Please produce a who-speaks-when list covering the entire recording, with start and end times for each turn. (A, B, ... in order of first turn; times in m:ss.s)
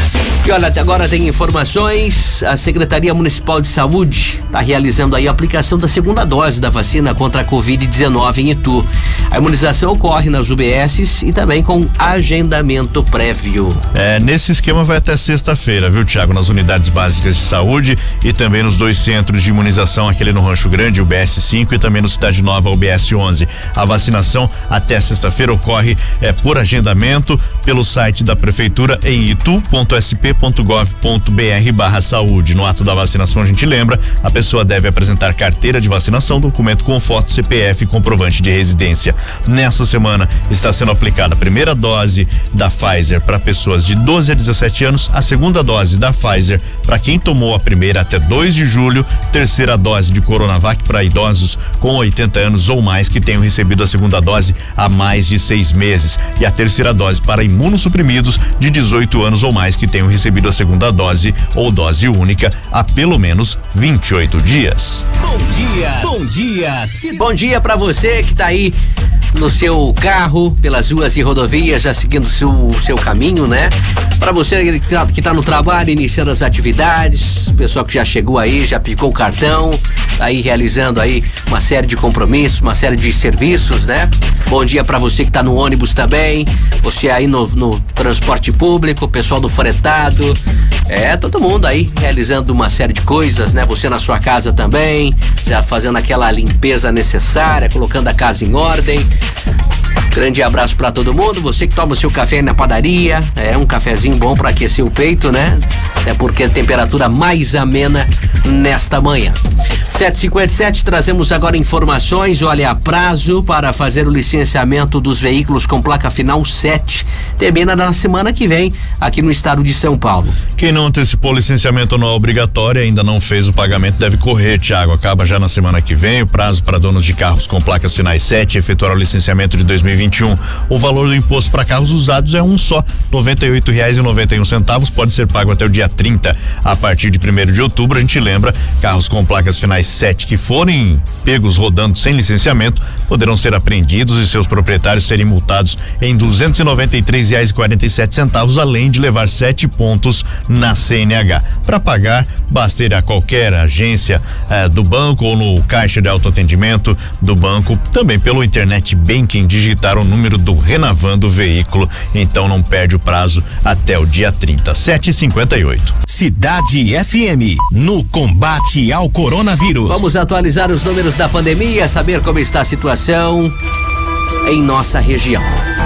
0:00.4-0:13.8 A
0:13.9-1:05.1 B
1:05.2-1:07.2 C
1:07.2-1:08.8 A
1:09.3-1:30.4 A
1:30.9-1:39.1 A
1:40.1-2:00.4 A
2:00.6-2:46.0 B
2:46.1-2:50.1 C
2:49.9-2:53.5 A
2:54.4-2:55.6 A